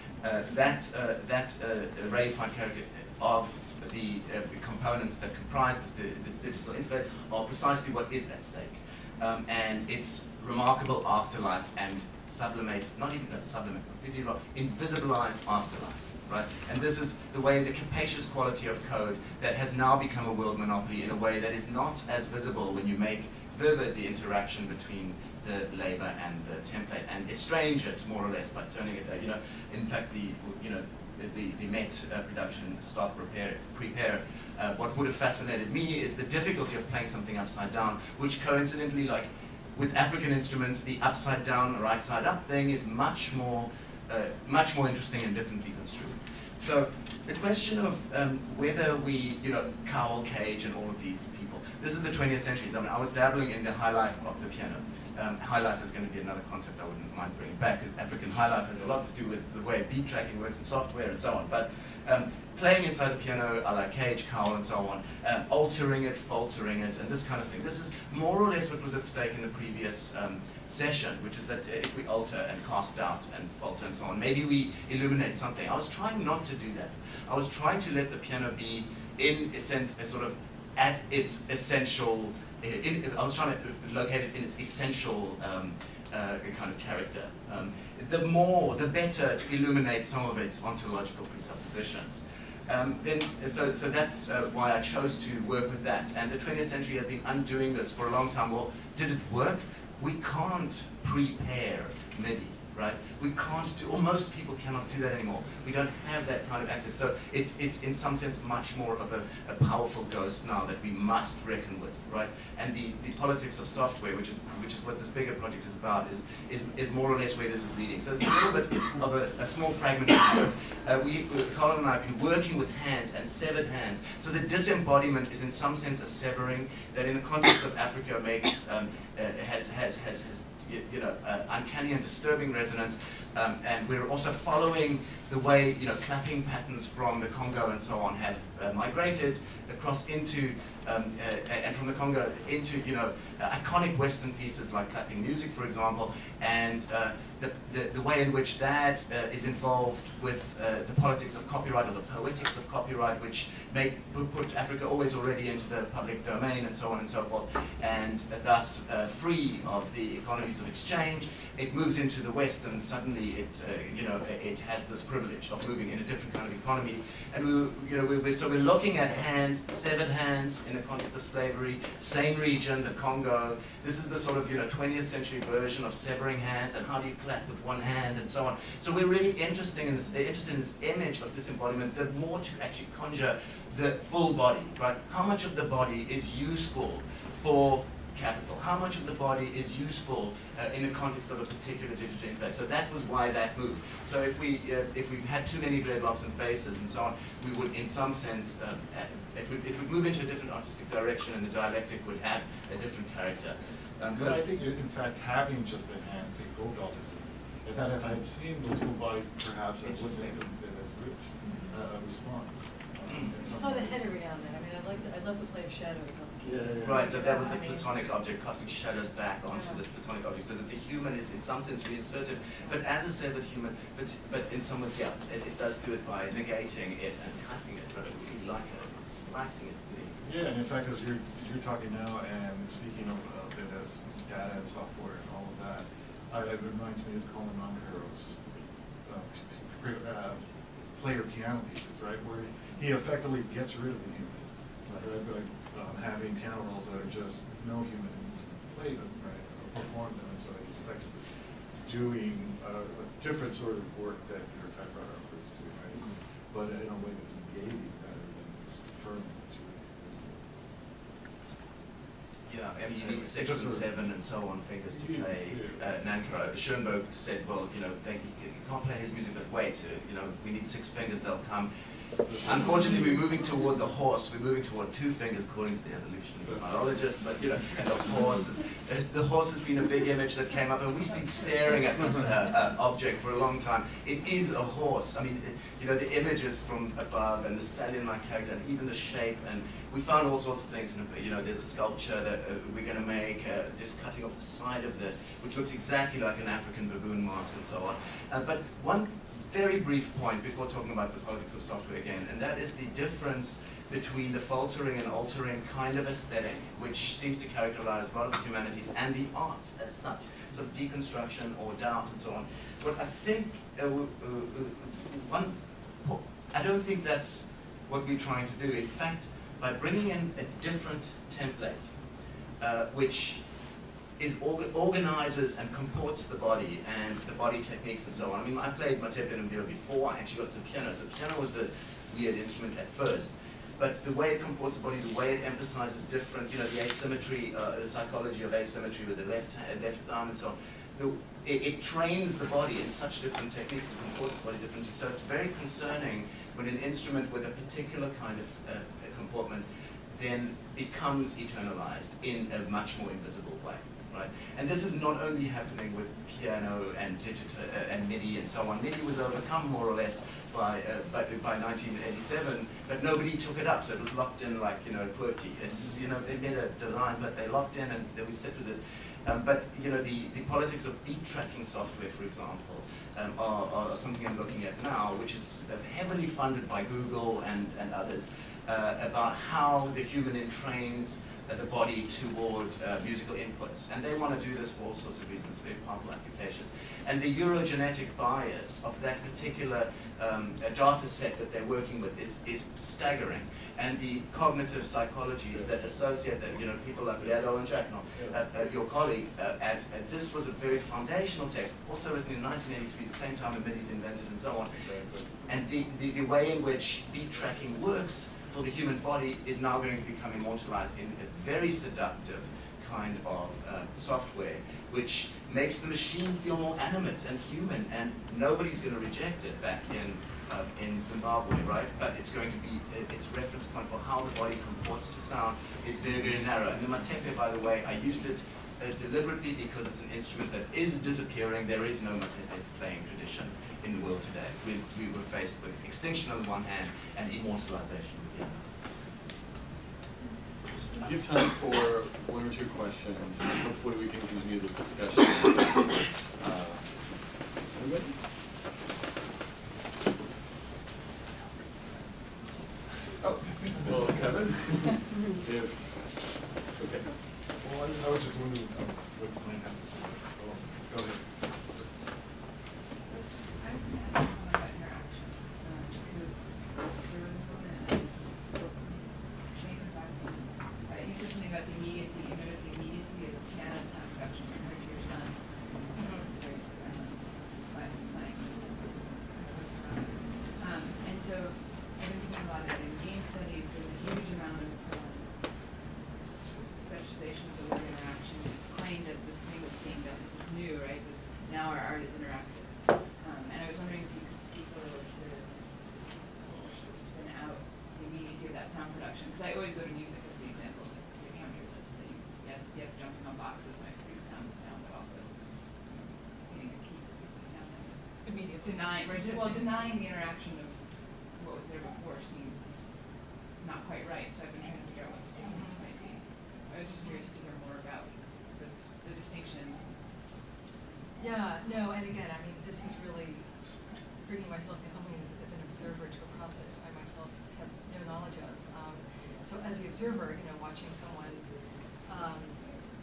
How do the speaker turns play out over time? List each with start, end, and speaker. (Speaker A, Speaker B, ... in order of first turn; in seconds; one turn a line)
Speaker A: 0.2-204.4
Speaker B: 204.1-214.1
Speaker A: 209.8-210.4
Speaker C: 211.4-211.7
Speaker C: 213.4-217.9
Speaker B: 216.4-217.1
Speaker A: 216.8-230.2
Speaker C: 219.5-219.8
Speaker B: 230.2-238.4
Speaker B: 239.0-240.4
Speaker B: 240.9-260.4
Speaker A: 262.5-271.7
Speaker B: 263.0-263.8
Speaker B: 264.9-265.8
Speaker A: 272.3-321.9
Speaker A: 322.6-323.4
Speaker A: 324.2-404.8
Speaker B: 404.9-405.1
Speaker A: 405.4-438.7
Speaker D: 440.9-447.0
Speaker D: 447.7-448.2
Speaker D: 453.2-455.7
Speaker D: 456.3-457.1
Speaker B: 457.6-461.2
Speaker E: 463.1-485.4
Speaker C: 475.9-476.3
Speaker E: 486.5-512.8
Speaker C: 508.2-509.8
Speaker E: 513.6-519.9
Speaker C: 515.4-515.8
Speaker C: 521.2-523.5
Speaker C: 524.2-531.4
Speaker C: 532.0-532.6